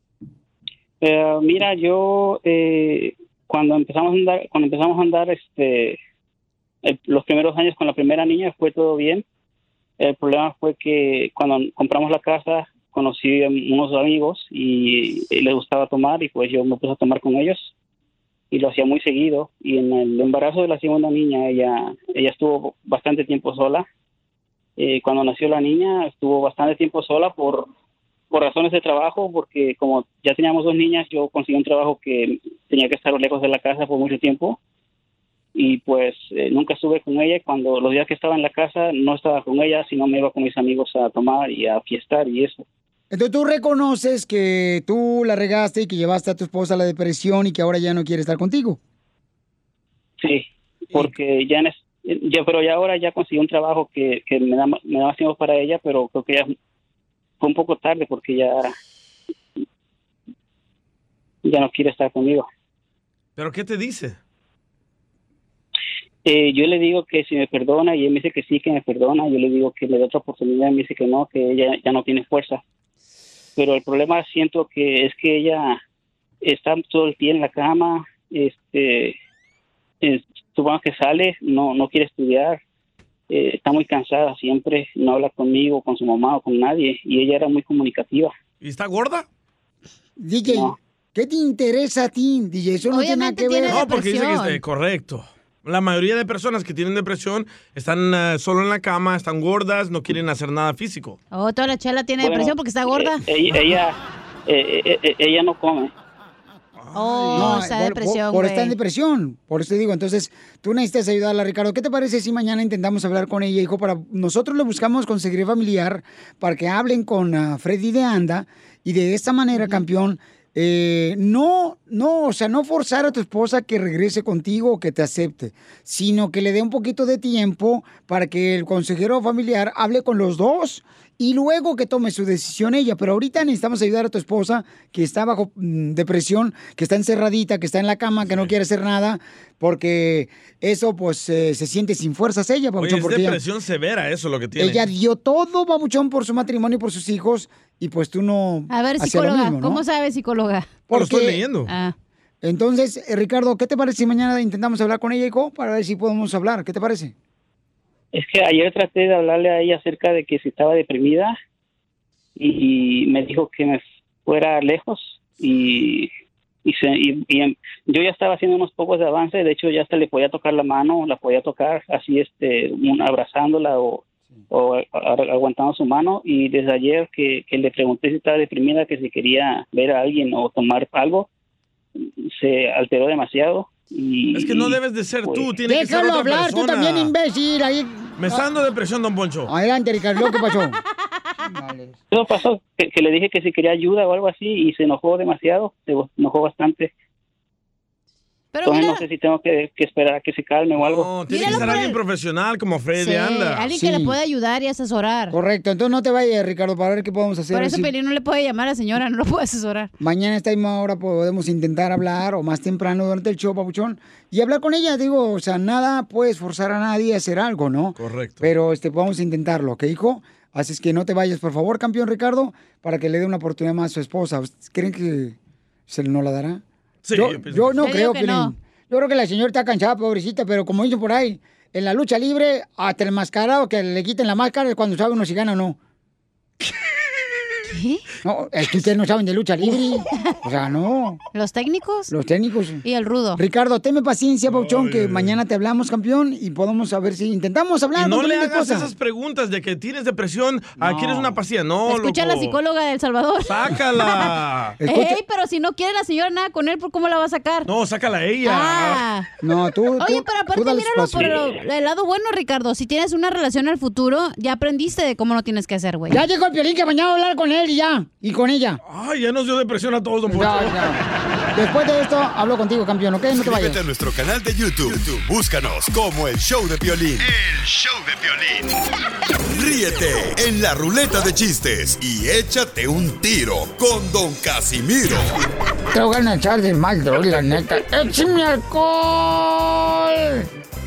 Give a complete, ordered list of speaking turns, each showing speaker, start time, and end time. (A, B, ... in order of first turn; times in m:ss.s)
0:01.0-0:06.0 A
0:06.8-0:09.2 A
0:10.0-0:17.7 A
0:18.5-0:23.9 A
0:24.8-0:27.7 A
0:28.3-0:34.6 A
0:35.6-0:42.6 A
0:43.1-0:48.8 B
0:50.2-0:56.5 A
0:57.4-0:58.8 A
1:01.4-1:02.5 A
1:03.4-1:04.2 C
1:06.2-1:12.6 A
1:13.6-1:15.8 A
1:16.4-1:19.2 A
1:20.0-1:22.6 A
1:23.3-1:28.3 A
1:28.6-1:29.3 C
1:30.2-1:33.9 B
1:30.5-1:30.8 A
1:32.9-1:34.6 D
1:33.7-1:41.2 C
1:41.3-1:43.2 D
1:42.2-1:45.9 A
1:46.8-1:47.5 C
1:46.9-1:48.7 D
1:47.3-2:23.4 B
2:22.8-2:24.9 C
2:24.6-2:29.8 B
2:28.7-2:30.8 D
2:30.9-2:31.4 B
2:30.9-2:31.7 C
2:31.7-2:32.0 D
2:32.4-2:37.1 B
2:38.1-2:41.4 A
2:42.4-2:46.1 A
2:46.6-3:01.3 A
3:02.0-3:05.5 A
3:04.3-3:07.1 C
3:05.6-3:08.4 B
3:08.2-3:09.5 C
3:09.5-3:10.8 B
3:11.4-3:12.0 B
3:12.1-3:16.9 A
3:18.5-3:19.1 D
3:18.6-3:21.2 A
3:20.8-3:23.7 C
3:21.3-3:22.0 D
3:23.0-3:25.4 D
3:23.7-3:24.2 B
3:25.3-3:27.9 B
3:27.5-3:29.9 D
3:30.0-3:45.4 B
3:38.0-3:38.4 C
3:45.9-3:46.6 B
3:47.0-3:47.8 C
3:47.1-3:55.8 B
3:47.8-3:48.5 D
3:57.7-3:58.0 D
3:58.2-4:01.2 B
4:01.3-4:02.1 D
4:02.1-4:02.8 B
4:02.8-4:03.4 D
4:03.4-4:08.9 B
4:04.5-4:05.4 C
4:08.0-4:12.6 C
4:10.8-4:11.4 B
4:11.9-4:13.5 D
4:13.5-4:14.8 C
4:14.8-4:15.2 B
4:14.9-4:17.7 D
4:17.7-4:19.0 C
4:18.4-4:19.3 D
4:19.4-4:21.5 B
4:20.0-4:26.2 D
4:21.2-4:21.5 C
4:26.1-4:28.8 B
4:28.8-4:30.9 C
4:30.3-4:31.0 B
4:31.5-4:33.8 B
4:33.4-4:38.7 E
4:39.5-4:45.4 E
4:45.9-4:50.5 B